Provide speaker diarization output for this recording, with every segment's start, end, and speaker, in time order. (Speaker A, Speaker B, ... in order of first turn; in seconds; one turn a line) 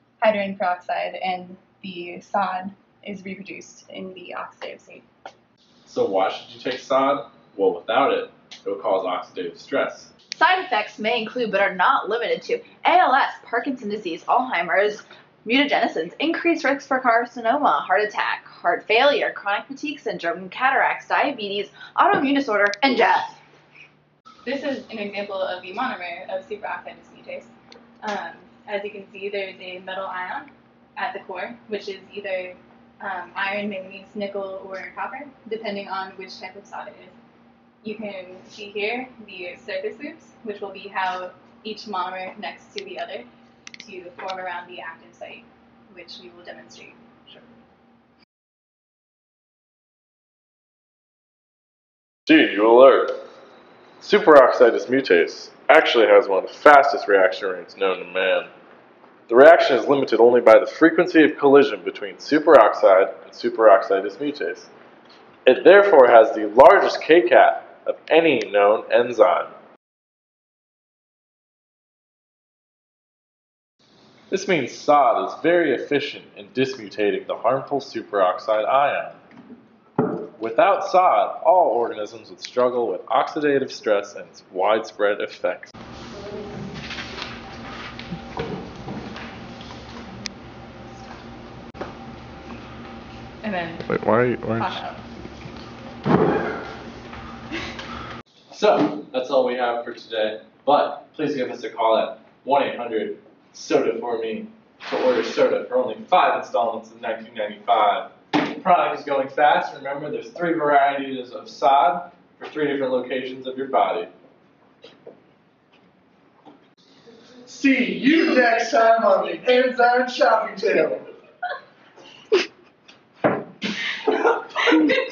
Speaker A: 0.2-5.0
Speaker B: 5.9-10.1
Speaker C: 10.3-23.4
Speaker A: 24.4-37.2
Speaker A: 37.8-47.5
Speaker B: 52.3-53.2
Speaker B: 54.0-58.5
Speaker B: 59.3-64.7
Speaker B: 65.5-69.5
Speaker B: 74.3-79.2
Speaker B: 80.4-85.7
Speaker A: 93.4-95.0
Speaker B: 93.9-94.8
Speaker B: 98.5-114.1
Speaker B: 117.4-121.0